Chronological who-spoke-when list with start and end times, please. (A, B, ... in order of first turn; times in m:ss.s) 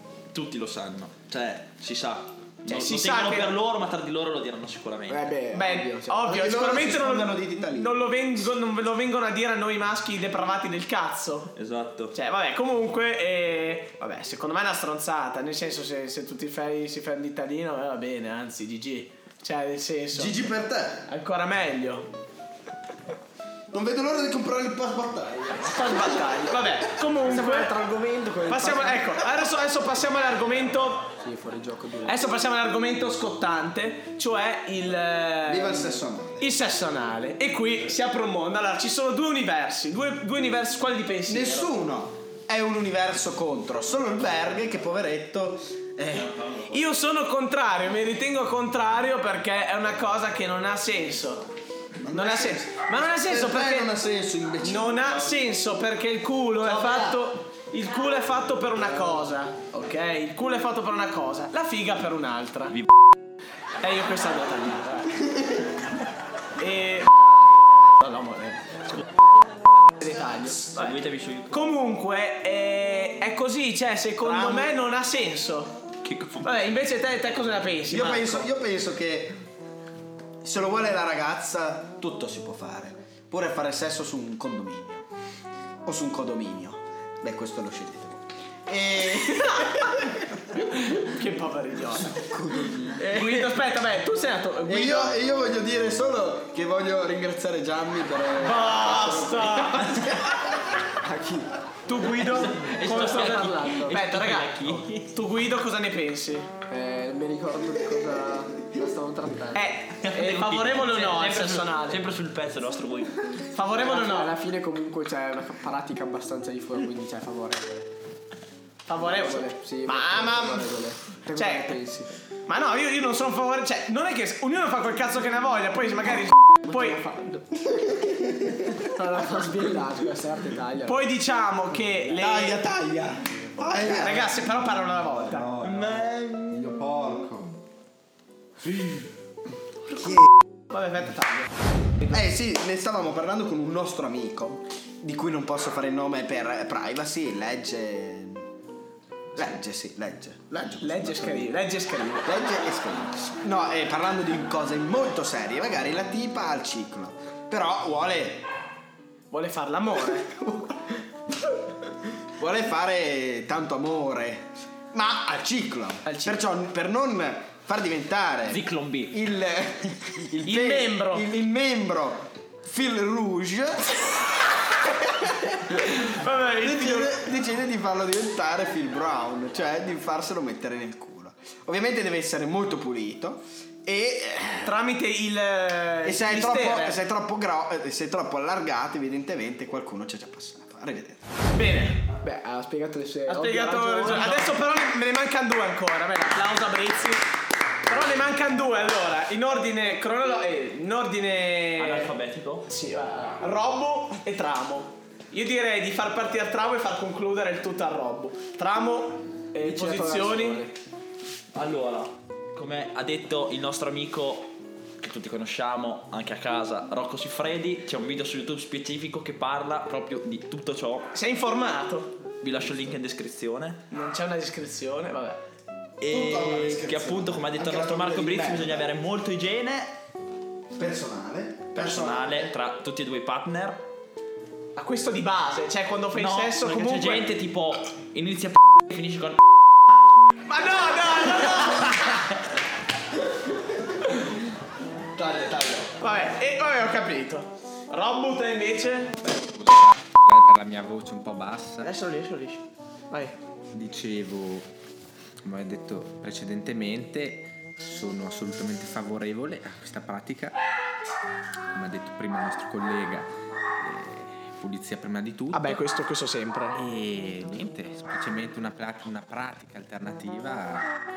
0:00.3-0:05.3 A
0:02.7-0:03.6 B
0:05.1-0:06.3 C
0:05.5-0:11.5 B
0:06.2-0:08.0 D
0:11.5-0:12.1 A
0:12.1-0:20.5 B
0:20.1-0:21.0 D
0:21.1-0:22.1 B
0:23.7-0:26.0 D
0:25.6-0:27.7 B
0:27.2-0:28.9 C
0:27.7-0:28.2 D
0:28.5-0:31.1 B
0:31.2-0:32.2 C
0:32.0-0:41.7 B
0:35.4-0:36.5 D
0:41.3-0:46.6 D
0:46.6-0:51.5 B
0:52.0-0:55.1 D
0:52.1-0:53.9 B
0:54.6-1:02.8 B
0:56.6-0:57.2 D
1:03.8-1:05.2 B
1:06.6-1:07.1 B
1:08.0-1:09.0 B
1:10.0-1:15.7 B
1:10.7-1:11.6 A
1:14.2-1:14.7 D
1:16.0-1:16.6 A
1:16.4-1:18.5 B
1:17.9-1:19.4 D
1:20.4-1:25.0 D
1:25.8-1:30.1 D
1:29.1-1:32.2 B
1:32.1-1:33.5 D
1:32.5-1:32.8 C
1:32.9-1:35.2 B
1:34.6-1:40.3 D
1:38.4-1:40.2 B
1:41.0-1:41.5 C
1:41.9-1:46.5 B
1:42.0-1:45.1 A
1:42.8-1:44.0 C
1:46.7-1:49.7 C
1:49.5-1:52.0 B
1:50.0-1:53.2 A
1:53.5-1:54.3 B
1:53.7-1:57.9 C
1:58.9-2:00.7 B
1:58.9-2:02.2 C
2:01.3-2:01.7 B
2:02.4-2:07.0 B
2:06.5-2:07.4 C
2:08.3-2:08.8 D
2:08.8-2:11.0 C
2:10.8-2:12.7 B
2:12.2-2:14.4 D
2:13.8-2:15.6 B
2:15.6-2:16.8 A
2:16.5-2:17.6 D
2:19.9-2:20.3 D
2:20.7-2:21.5 B
2:22.0-2:28.5 D
2:29.3-2:31.5 D
2:30.8-2:32.4 B
2:32.2-2:38.4 D
2:39.3-2:40.3 B
2:40.3-2:40.8 D
2:42.4-2:54.1 D
2:48.5-2:49.2 A
2:50.4-2:51.3 B
2:55.6-2:57.2 B
2:56.6-3:04.8 D
3:04.6-3:07.0 B
3:06.0-3:11.2 D
3:11.5-3:12.1 B
3:12.2-3:14.5 C
3:13.3-3:17.2 B
3:17.8-3:22.1 B
3:21.8-3:22.7 A
3:22.6-3:30.6 B
3:29.6-3:30.7 C
3:31.5-3:41.1 A
3:41.1-3:42.1 B
3:42.4-3:43.8 A
3:43.9-3:45.4 B
3:46.0-3:49.9 A
3:46.1-3:48.8 D
3:50.7-3:52.5 D
3:51.7-3:53.8 A
3:54.8-3:57.3 B
3:56.1-3:59.4 A
4:00.4-4:02.3 B
4:05.2-4:09.3 B
4:09.4-4:11.9 E
4:11.8-4:13.4 B
4:13.7-4:14.7 E
4:15.4-4:20.6 E
4:21.7-4:23.3 E
4:23.8-4:25.8 E
4:25.5-4:26.8 B
4:26.7-4:30.9 E